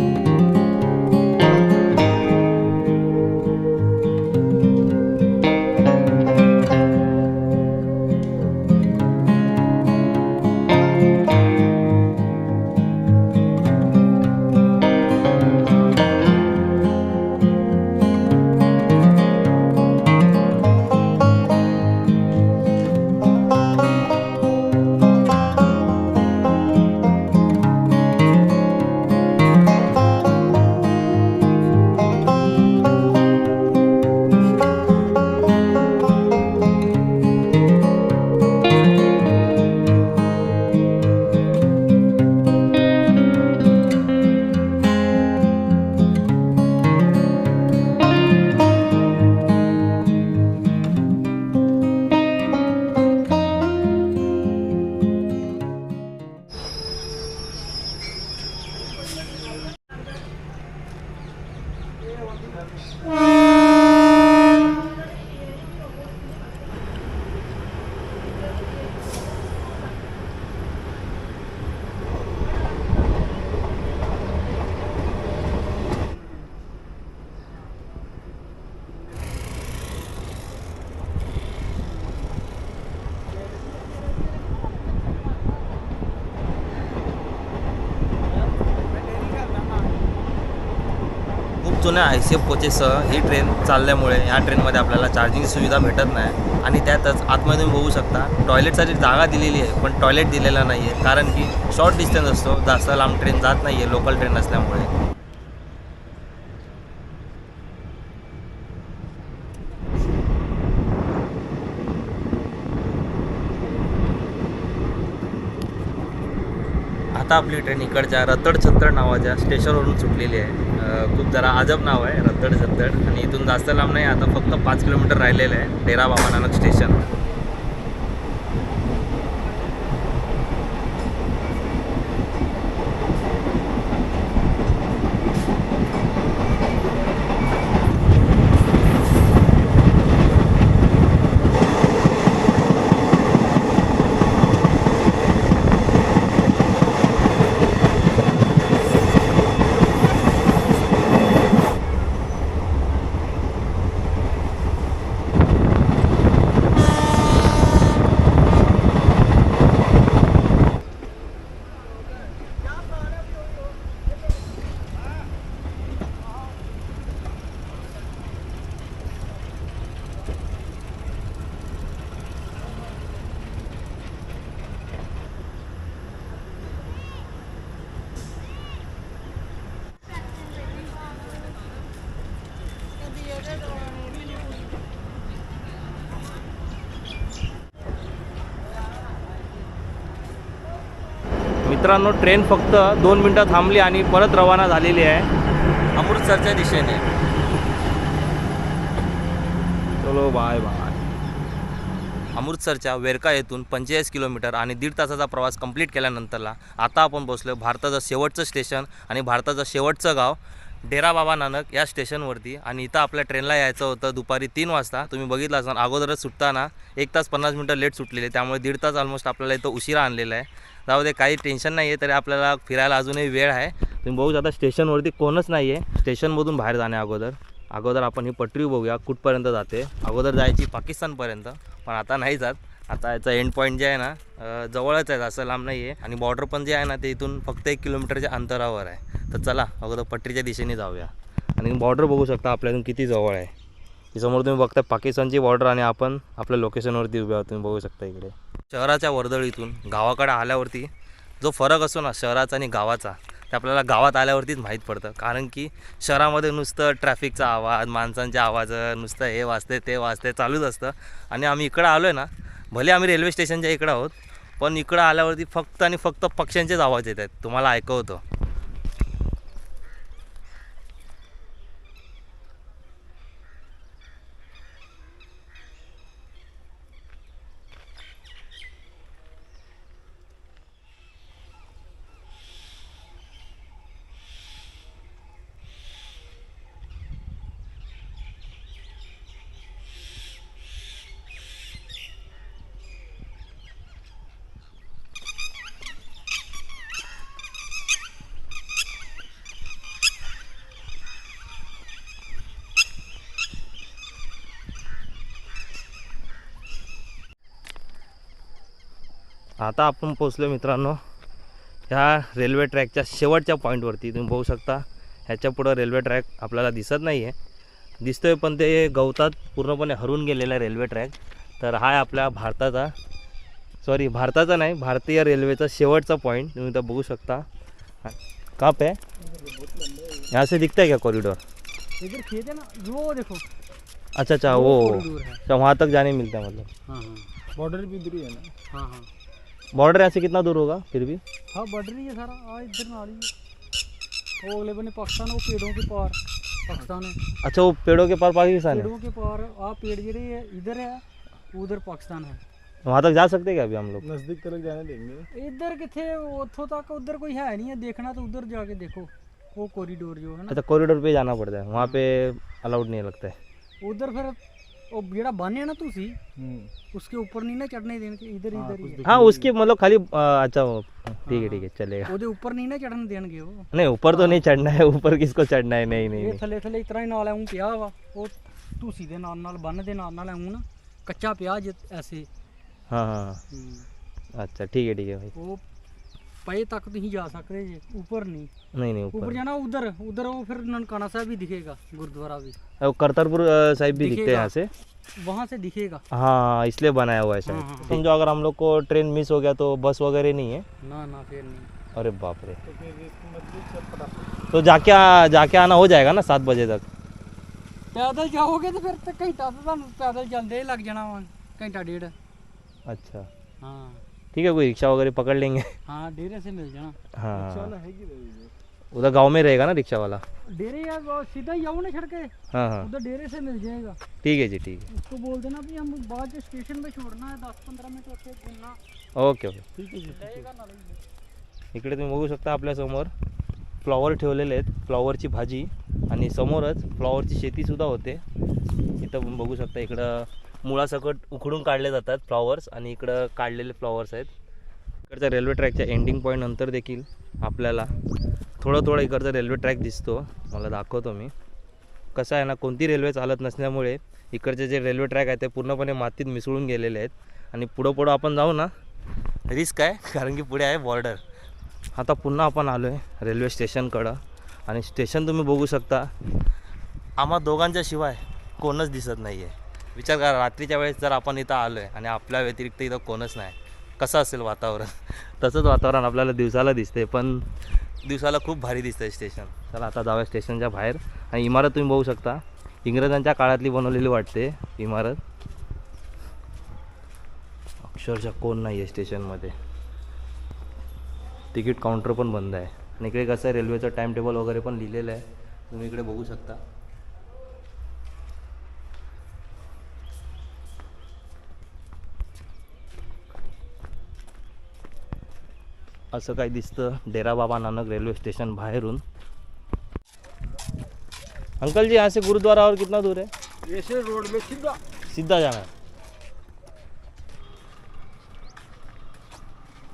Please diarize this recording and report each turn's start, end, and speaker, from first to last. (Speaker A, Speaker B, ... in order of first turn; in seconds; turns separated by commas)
Speaker A: 91.6-104.9, Speaker A: 117.2-127.0, Speaker A: 191.7-195.3, Speaker A: 196.0-197.1, Speaker A: 200.0-201.1, Speaker A: 202.3-243.5, Speaker A: 244.1-250.9, Speaker A: 251.4-268.2, Speaker A: 309.6-311.0, Speaker A: 311.9-317.4, Speaker A: 318.0-322.9, Speaker A: 323.8-327.5, Speaker A: 328.0-329.0, Speaker B: 329.2-330.3, Speaker A: 330.3-331.4, Speaker C: 332.0-333.4, Speaker A: 334.2-336.7, Speaker C: 334.5-335.4, Speaker C: 336.9-337.3, Speaker B: 337.6-338.5, Speaker C: 338.7-339.1, Speaker A: 339.7-341.2, Speaker C: 341.5-343.3, Speaker C: 344.4-347.2, Speaker A: 347.4-348.9, Speaker C: 348.7-351.0, Speaker C: 351.5-352.4, Speaker A: 352.9-354.0, Speaker B: 354.0-355.3, Speaker C: 355.3-360.6, Speaker A: 360.5-363.4, Speaker C: 363.8-364.4, Speaker C: 364.9-366.2, Speaker B: 366.4-366.7, Speaker C: 366.9-369.1, Speaker B: 368.5-369.5, Speaker A: 369.1-372.1, Speaker C: 371.3-374.4, Speaker A: 373.7-376.4, Speaker C: 375.9-382.3, Speaker A: 382.9-383.4, Speaker C: 383.5-383.9, Speaker A: 384.4-385.3, Speaker C: 385.4-385.6, Speaker C: 386.4-388.5, Speaker A: 388.7-389.4, Speaker C: 389.1-392.6, Speaker A: 392.8-394.7, Speaker C: 393.9-394.5, Speaker C: 395.2-396.0, Speaker A: 396.1-400.7, Speaker C: 397.5-398.0, Speaker C: 400.8-401.7, Speaker A: 401.9-402.6, Speaker B: 402.6-404.5, Speaker A: 404.5-406.9, Speaker C: 407.9-412.1, Speaker A: 412.9-413.3, Speaker C: 413.6-414.0, Speaker A: 414.3-415.7, Speaker C: 415.9-417.0, Speaker A: 417.2-417.7, Speaker B: 417.3-418.5, Speaker A: 418.9-420.2, Speaker C: 420.5-424.0, Speaker A: 422.5-422.9, Speaker A: 424.2-424.9, Speaker C: 424.9-428.8, Speaker A: 429.2-429.6, Speaker B: 429.8-430.5, Speaker C: 430.1-431.0, Speaker A: 431.7-433.1, Speaker A: 433.8-438.2, Speaker A: 439.0-444.3, Speaker A: 445.1-447.9, Speaker A: 448.6-451.3, Speaker A: 452.1-458.7, Speaker A: 459.5-461.2, Speaker A: 462.0-466.1, Speaker A: 467.2-477.5, Speaker A: 478.0-485.2, Speaker A: 487.8-489.5, Speaker A: 491.5-496.6, Speaker A: 506.1-509.0, Speaker A: 511.6-513.3, Speaker B: 513.6-514.8, Speaker A: 515.1-515.7